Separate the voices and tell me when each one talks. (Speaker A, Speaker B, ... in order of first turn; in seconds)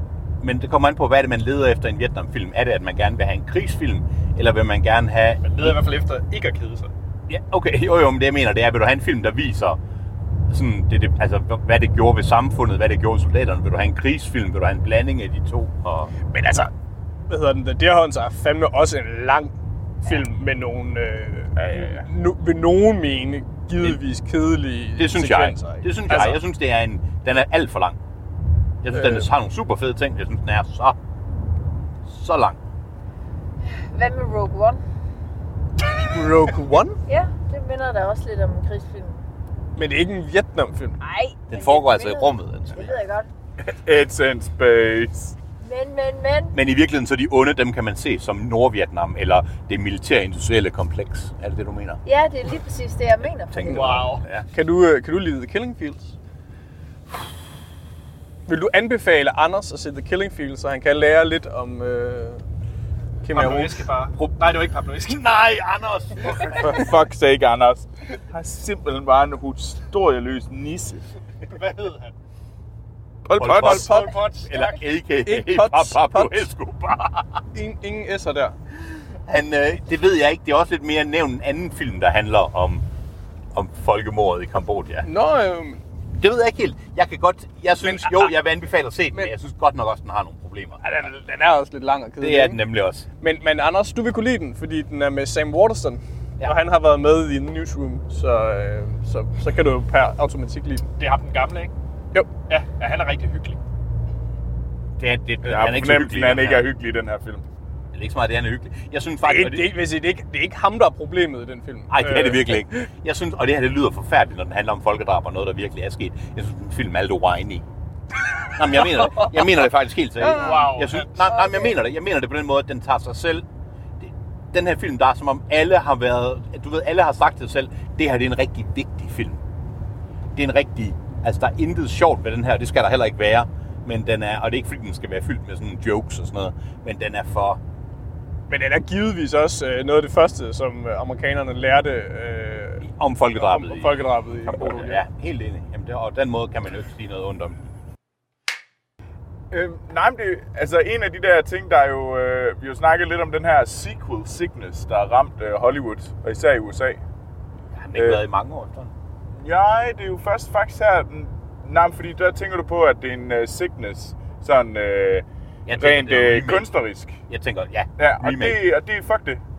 Speaker A: 0.4-5.8, 7.3-9.8, 10.5-16.1, 25.0-28.0, 28.8-31.0, 32.0-32.6, 41.5-43.0, 46.5-52.0, 53.5-54.5, 65.0-66.9, 73.4-77.4, 79.3-82.8, 83.5-85.1, 86.2-90.8, 92.2-93.1, 105.0-106.7, 107.9-109.8, 111.9-117.6, 118.5-123.4, 124.0-129.4, 130.3-137.6, 142.8-147.6, 157.8-158.9, 165.7-166.7, 167.3-168.6
Speaker B: 5.4-6.9, 53.7-54.2, 63.3-65.3, 71.5-72.1, 73.6-74.8, 101.0-101.7, 102.5-103.6, 120.3-121.2
Speaker C: 16.3-16.7, 17.2-19.5, 20.0-26.4, 28.9-29.3, 36.1-37.0, 39.8-41.0, 54.5-56.1, 58.5-62.4, 63.2-63.8, 73.6-74.2, 75.2-76.5, 77.5-78.5, 85.0-85.8, 87.8-88.4, 90.8-92.6, 93.2-100.8, 109.2-112.8, 120.2-120.5, 138.5-145.0
Speaker D: 21.6-22.1, 43.7-45.3, 66.6-71.1, 73.2-73.9, 105.4-107.4, 149.5-157.0, 157.9-158.2, 159.3-167.2, 168.0-169.4
Speaker E: 33.6-34.8, 37.1-39.2, 41.0-43.3, 45.6-46.5, 52.0-54.1, 121.2-121.8